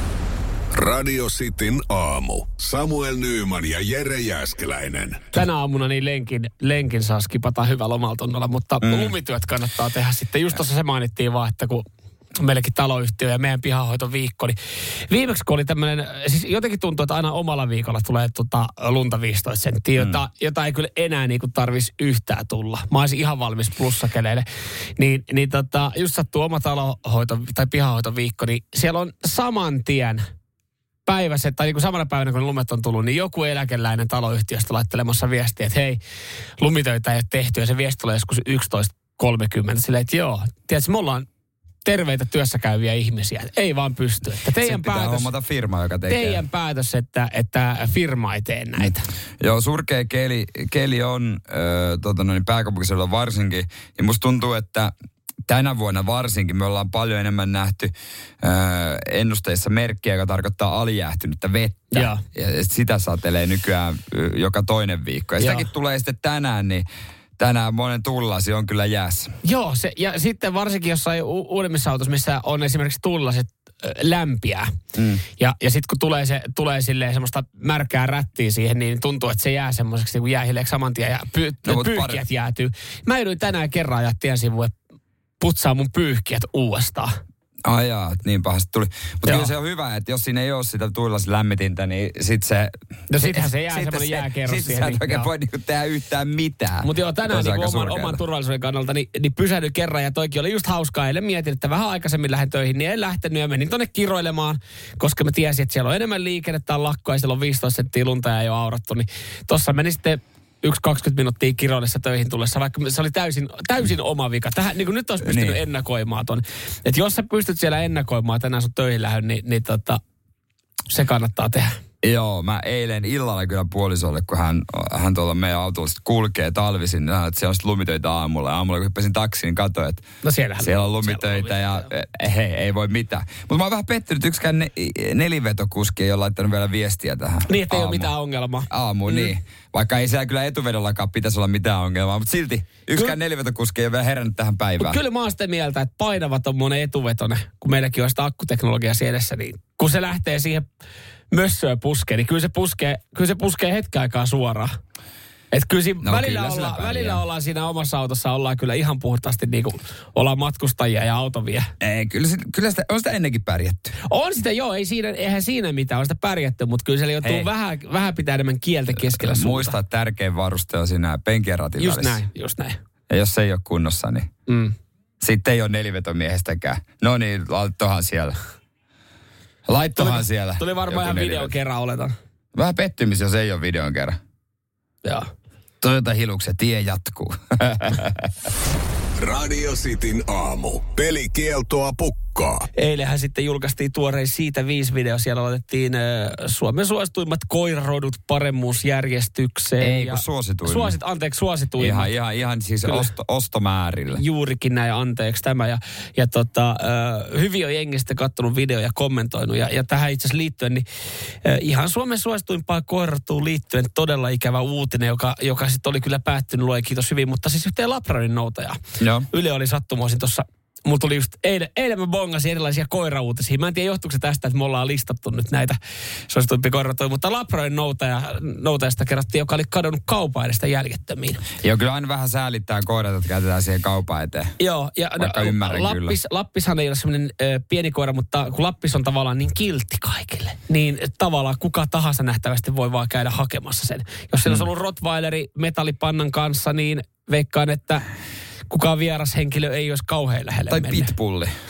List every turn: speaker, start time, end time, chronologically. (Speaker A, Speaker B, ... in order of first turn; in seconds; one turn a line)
Speaker A: 0.7-5.3
Speaker B: 5.3-14.6
Speaker C: 8.8-9.1
Speaker B: 15.1-30.2
Speaker B: 31.1-36.0
Speaker B: 36.6-41.3
Speaker B: 41.8-45.3
Speaker C: 44.6-46.4
Speaker B: 46.1-49.1
Speaker C: 48.8-54.9
Speaker C: 55.5-66.8
Speaker B: 61.9-62.2
Speaker B: 65.4-65.7
Speaker C: 67.4-69.3
Speaker B: 69.4-74.7
Speaker C: 74.9-75.2
Speaker B: 75.4-84.7
Speaker C: 81.6-82.2
Speaker B: 85.4-87.2
Speaker C: 87.6-98.2
Speaker B: 89.2-89.5
Speaker B: 93.1-95.3
Speaker B: 96.8-120.0
Speaker C: 115.2-115.6
Speaker B: 120.9-121.8
Speaker C: 122.0-130.1
Speaker B: 130.2-131.8
Speaker C: 130.6-138.1
Speaker B: 137.5-139.3
Speaker C: 138.7-145.0
Speaker B: 144.8-150.7
Speaker B: 151.3-154.8
Speaker B: 155.5-161.7
Speaker C: 156.0-157.2
Speaker C: 161.8-163.9
Speaker B: 164.1-169.7
Speaker C: 167.2-167.5
Speaker C: 168.9-172.2
Speaker B: 171.8-172.8
Speaker C: 173.1-174.3
Speaker B: 174.5-174.7
Speaker C: 175.2-178.3
Speaker C: 179.7-181.5
Speaker B: 180.0-182.1
Speaker C: 182.5-184.2
Speaker C: 185.8-188.3
Speaker A: 189.2-192.7
Speaker B: 192.7-202.1
Speaker C: 199.8-200.9
Speaker C: 201.8-204.2
Speaker B: 204.2-210.8
Speaker B: 211.4-218.8
Speaker C: 219.0-219.3
Speaker B: 219.3-225.8
Speaker B: 226.3-231.4
Speaker C: 231.6-234.5
Speaker B: 234.6-248.0
Speaker C: 235.2-236.2
Speaker B: 248.7-251.1
Speaker C: 250.7-251.5